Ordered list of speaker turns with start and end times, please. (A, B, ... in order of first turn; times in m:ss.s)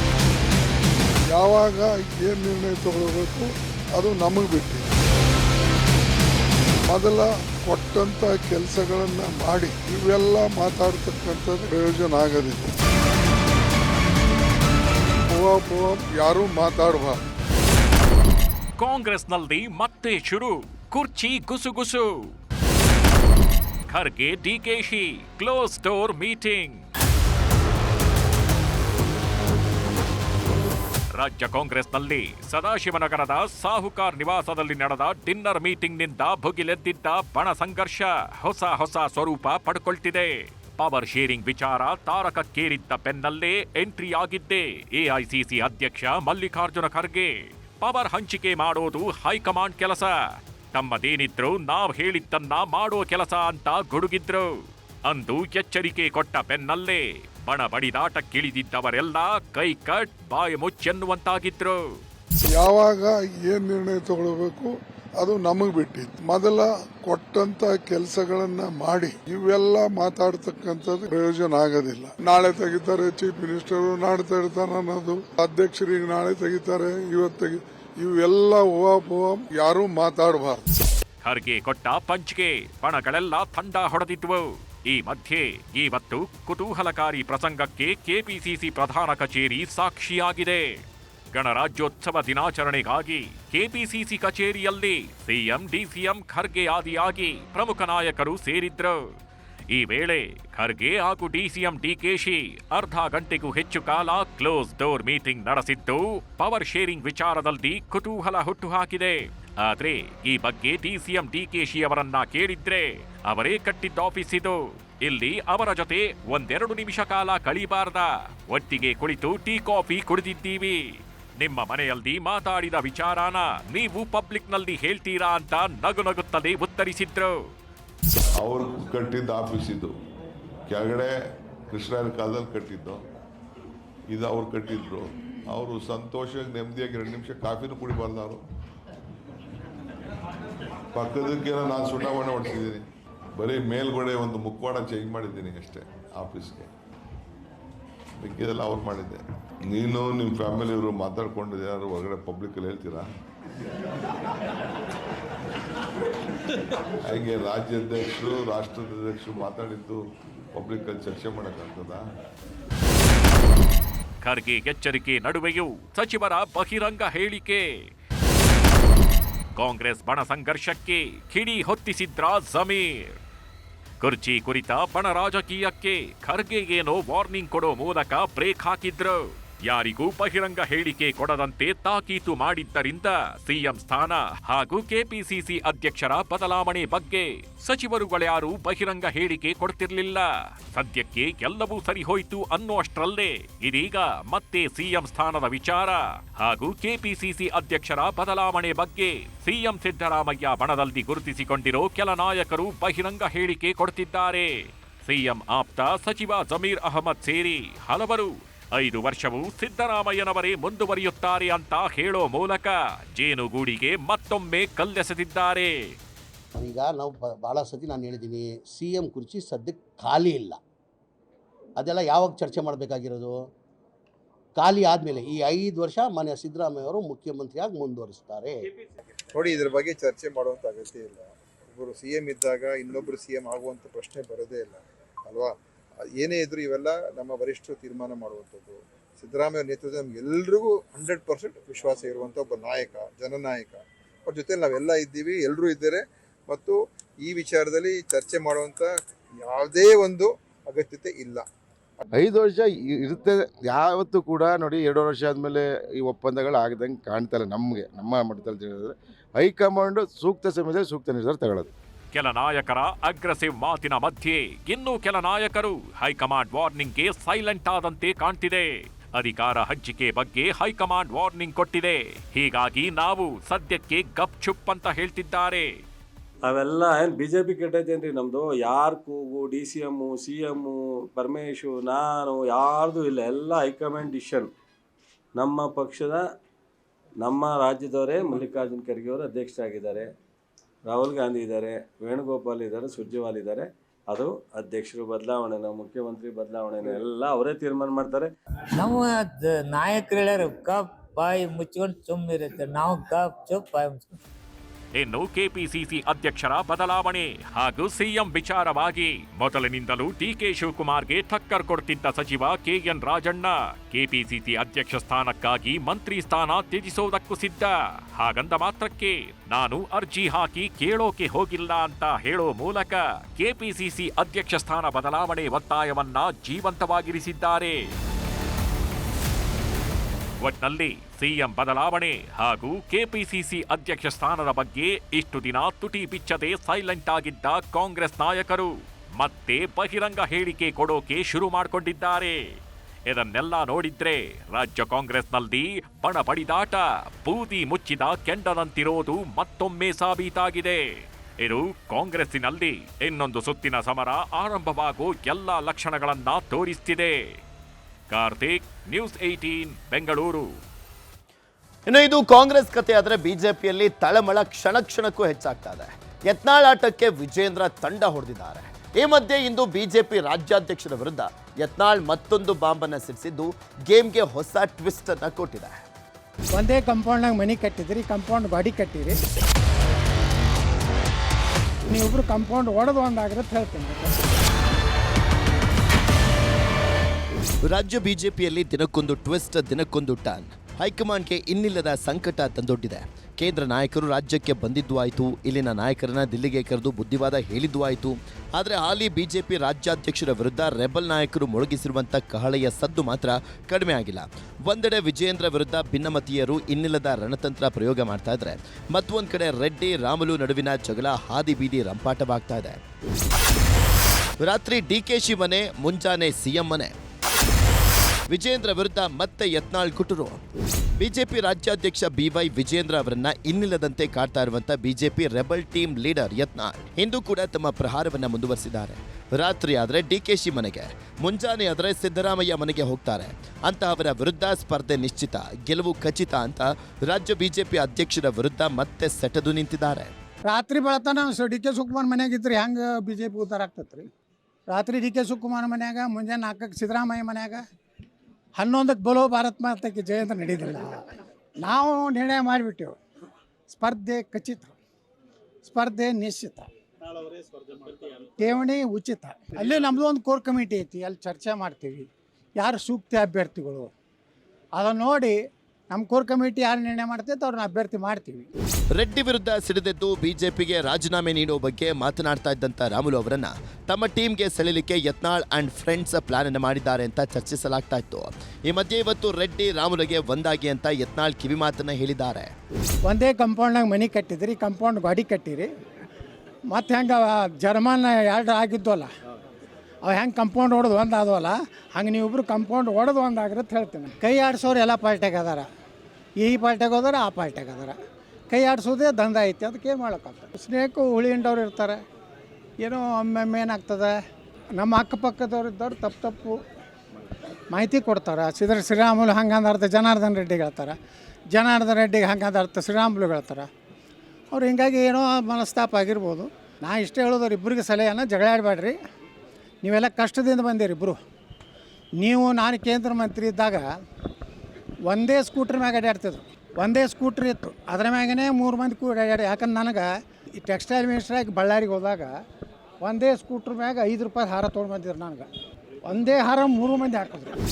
0:01.3-0:04.9 A
0:06.9-0:12.7 A
0:15.3-0:17.2 A
0:18.8-0:22.3 B
0:23.9-0:26.9 B
0:31.2-1:02.0 B
1:02.4-1:20.7 A
1:21.2-1:39.1 B
1:39.7-2:07.4 B
2:08.4-2:10.0 C
2:10.7-2:13.0 C
2:14.1-2:18.4 C
2:20.9-2:26.7 C
2:28.2-2:33.1 C
2:37.0-2:40.0 C
2:40.6-2:42.0 C
2:44.2-2:47.9 B
2:49.6-2:53.2 B
2:54.0-3:36.0 B
3:36.6-3:40.6 D
3:41.8-3:43.5 D
3:44.6-3:48.7 D
3:49.3-3:55.6 E
3:56.1-4:08.9 E
4:09.4-4:11.5 E
4:12.1-4:21.7 F
4:22.1-4:35.8 B
4:36.5-4:44.5 G
4:45.4-4:46.2 G
4:47.2-4:50.1 G
4:50.9-4:58.3 G
4:58.8-5:04.2 H
5:05.0-5:27.9 B
5:30.4-5:57.4 B
5:58.1-6:00.5 B
6:01.9-6:15.9 I
6:16.6-6:19.2 J
6:21.9-6:24.4 J
6:27.6-6:52.8 I
6:54.4-6:57.0 I
6:58.3-7:00.4 I
7:01.0-7:20.2 I
7:20.5-7:24.1 J
7:24.7-7:27.6 J
7:28.6-7:31.0 J
7:31.6-7:33.0 J
7:33.7-7:34.8 J
7:35.6-7:36.7 J
7:38.4-7:43.9 J
7:44.8-7:45.4 J
7:45.9-7:48.5 J
7:48.9-8:02.5 I
8:03.1-8:05.7 J
8:06.7-8:09.1 J
8:10.1-8:15.7 J
8:16.4-8:18.0 J
8:18.5-8:22.0 J
8:22.8-8:24.2 J
8:24.8-8:26.6 J
8:27.7-8:31.0 J
8:31.5-8:33.7 J
8:34.5-8:39.0 J
8:39.8-8:41.2 J
8:42.2-8:43.9 J
8:45.1-8:50.1 J
8:50.6-8:52.3 J
8:53.0-8:55.5 J
8:56.1-8:57.6 J